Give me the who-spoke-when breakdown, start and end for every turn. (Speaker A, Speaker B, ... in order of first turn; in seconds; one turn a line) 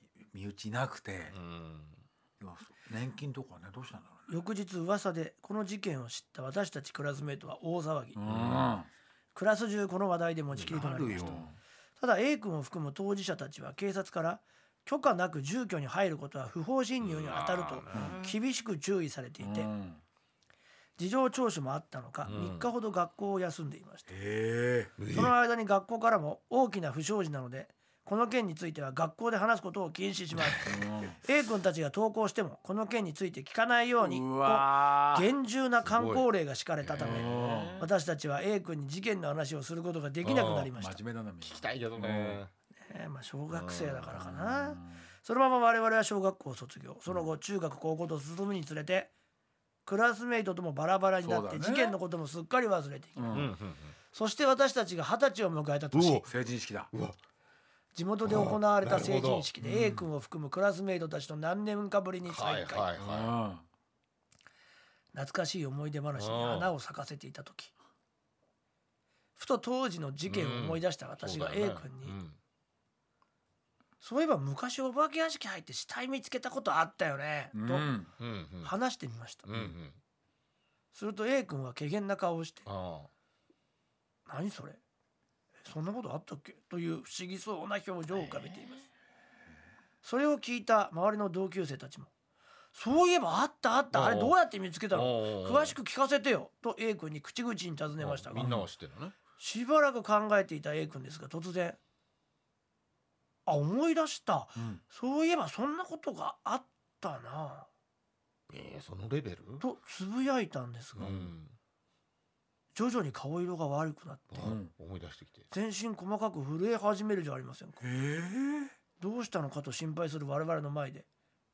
Speaker A: 0.2-1.4
Speaker B: 1.3-2.0
Speaker A: 2.4-4.3
Speaker C: 4.3-8.2
Speaker A: 8.2-8.9
Speaker B: 8.3-8.8
Speaker C: 9.3-11.4
Speaker B: 10.5-11.6
Speaker A: 10.9-11.5
Speaker C: 12.0-19.7
Speaker B: 17.0-18.4
Speaker A: 17.9-18.2
Speaker A: 19.4-20.0
Speaker C: 21.0-24.1
Speaker B: 22.2-22.7
Speaker A: 24.1-24.9
Speaker B: 25.0-25.3
Speaker C: 25.1-41.0
Speaker A: 30.6-31.2
Speaker A: 34.0-35.3
Speaker B: 35.8-36.2
Speaker B: 36.8-37.9
Speaker A: 37.0-37.8
Speaker B: 40.2-40.7
Speaker A: 40.8-42.4
Speaker B: 41.4-42.5
Speaker C: 42.8-49.1
Speaker B: 43.5-44.3
Speaker A: 44.1-45.0
Speaker C: 49.9-53.5
Speaker A: 51.2-52.0
Speaker A: 53.2-53.5
Speaker B: 53.3-54.0
Speaker C: 54.1-56.3
Speaker B: 55.9-56.2
Speaker A: 56.2-56.9
Speaker B: 56.9-57.2
Speaker C: 57.9-62.9
Speaker B: 58.2-59.5
Speaker A: 59.6-60.1
Speaker B: 62.2-63.4
Speaker A: 63.0-63.6
Speaker C: 65.1-67.7
Speaker B: 66.2-66.7
Speaker C: 69.3-72.2
Speaker B: 70.2-72.4
Speaker C: 74.0-77.9
Speaker A: 77.5-78.1
Speaker B: 78.2-78.7
Speaker C: 78.6-79.5
Speaker B: 79.5-80.0
Speaker C: 80.9-82.7
Speaker B: 82.7-83.1
Speaker C: 84.2-84.8
Speaker C: 85.6-88.9
Speaker C: 90.0-92.1
Speaker C: 92.7-98.5
Speaker B: 93.9-94.4
Speaker B: 94.9-95.8
Speaker B: 98.0-99.2
Speaker A: 98.3-98.7
Speaker C: 99.4-101.8
Speaker C: 103.5-107.7
Speaker B: 108.5-109.6
Speaker C: 109.6-111.2
Speaker B: 111.0-111.5
Speaker C: 112.7-114.5
Speaker B: 114.3-115.5
Speaker A: 114.4-114.7
Speaker C: 115.5-117.8
Speaker A: 117.8-118.7
Speaker C: 119.0-121.1